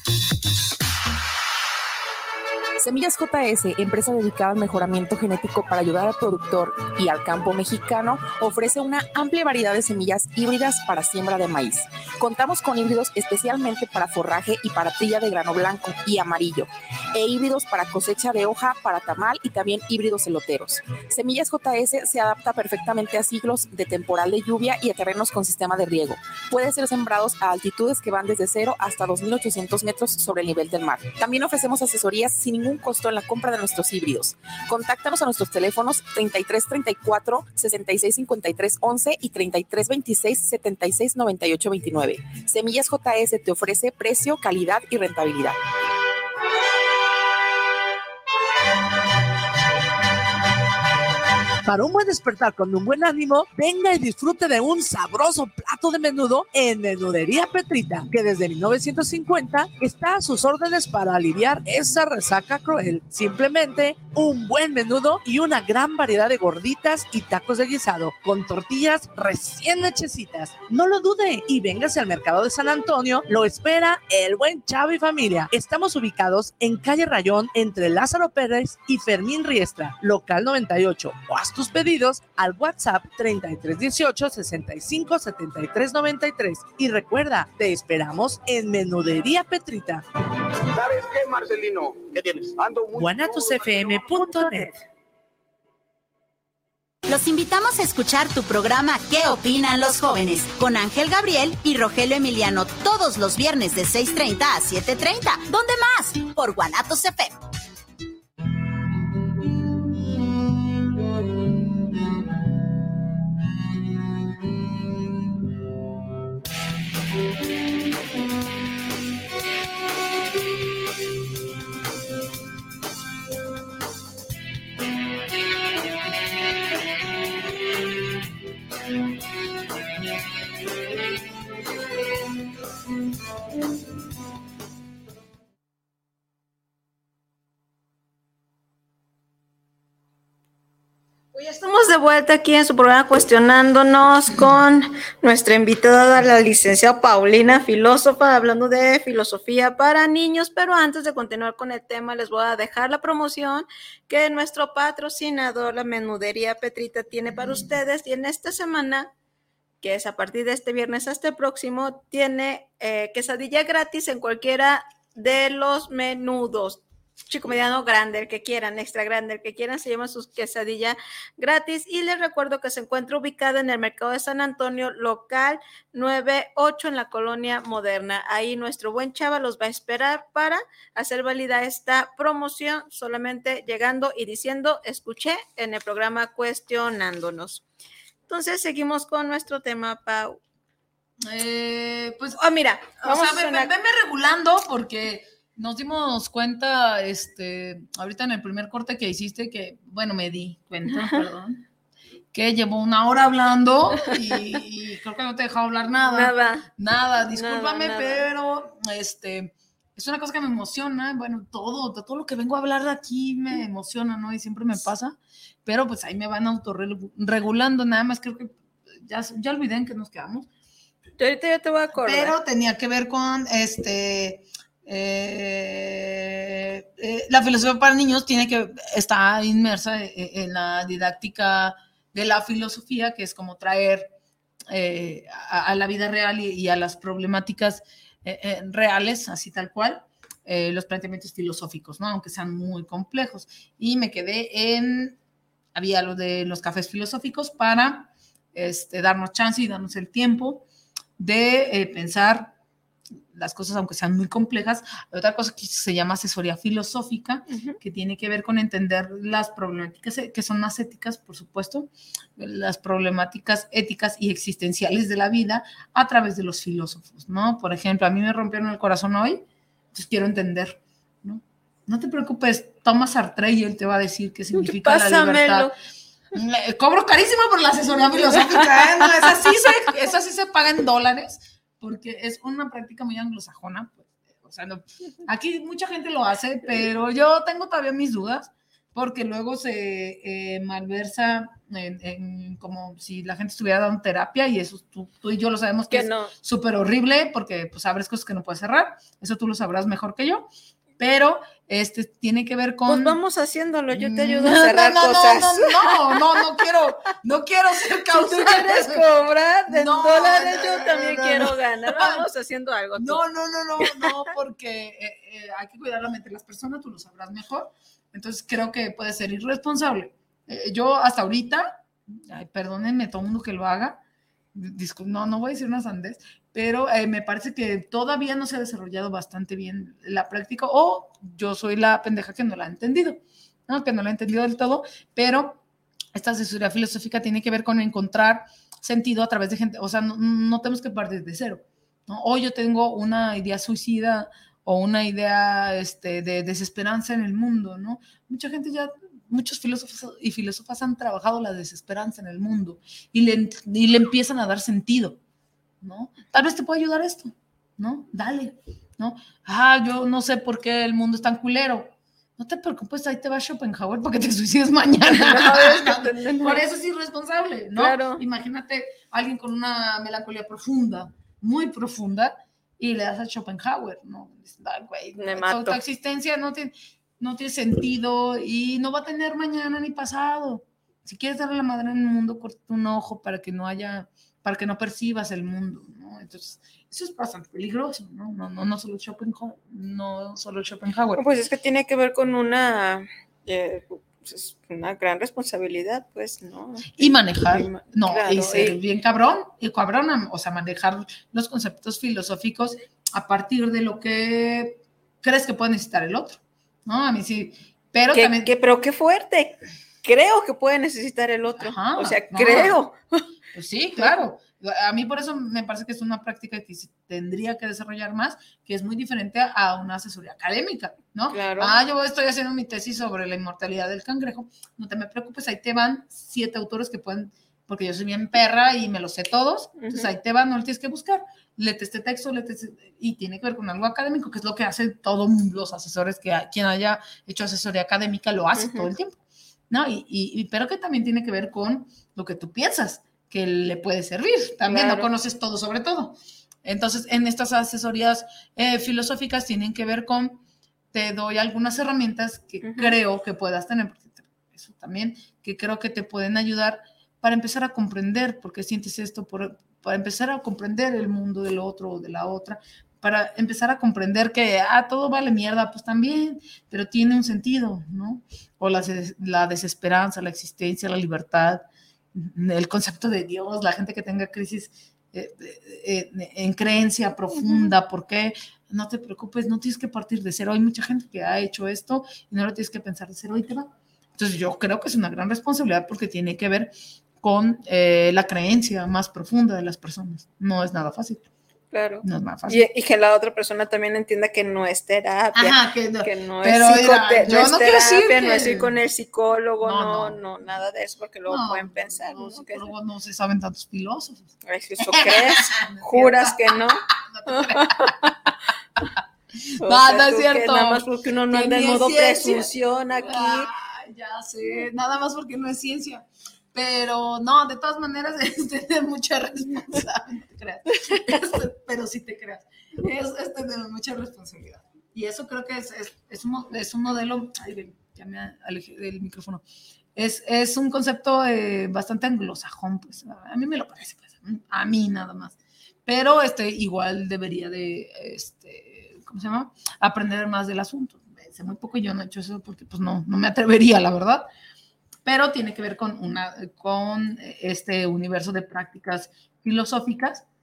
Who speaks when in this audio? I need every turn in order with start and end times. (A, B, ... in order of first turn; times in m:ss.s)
0:02.8-0:45.6 A
0:51.6-1:30.0 B
1:30.7-1:34.3 C
1:32.9-1:34.7 B
1:37.1-1:47.4 D
2:21.3-2:39.1 E
2:39.8-3:07.6 E
3:08.3-3:10.4 E
3:11.2-3:12.4 F
3:12.4-3:13.7 E
3:13.0-3:21.6 F
3:20.9-3:21.2 E
3:22.3-3:38.5 F
3:26.1-3:26.7 E
3:27.3-3:28.2 E
3:39.0-3:40.5 F
3:41.2-3:42.3 E
3:41.9-3:54.1 F
3:54.7-4:05.2 F
4:05.7-4:10.6 F
4:11.2-4:12.5 F
4:13.3-4:35.7 F
4:17.5-4:17.8 E
4:34.5-4:35.7 E
4:36.3-5:00.5 F
4:55.9-4:56.3 E
5:01.0-5:03.1 F
5:02.9-5:06.2 E
5:03.9-5:09.0 F
5:08.1-5:13.2 E
5:09.7-5:12.2 F
5:13.0-5:24.0 F
5:13.8-5:14.1 E
5:24.5-5:35.6 F
5:36.1-5:55.2 F
5:55.8-6:31.2 F
6:05.1-6:06.6 E
6:07.8-6:08.2 E
6:15.2-6:15.8 E
6:31.2-6:38.8 E
6:37.0-6:48.5 F
6:48.1-6:53.2 E
6:51.6-6:52.8 F
6:53.5-7:19.2 F
7:01.3-7:01.7 E
7:09.8-7:10.1 E
7:18.6-7:18.9 E
7:19.7-7:26.1 F
7:24.7-7:25.1 E
7:26.6-7:30.4 F
7:30.9-7:51.6 F
7:32.6-7:33.0 E
7:52.1-8:11.2 F
7:57.4-7:57.7 E
8:11.7-8:22.7 E
8:12.0-8:12.6 F
8:15.3-8:18.7 F
8:19.6-8:20.2 F
8:21.3-8:27.9 F
8:24.4-8:28.1 E
8:29.4-8:49.4 F
8:29.6-8:33.5 E
8:49.9-9:04.2 F
9:05.0-9:10.2 F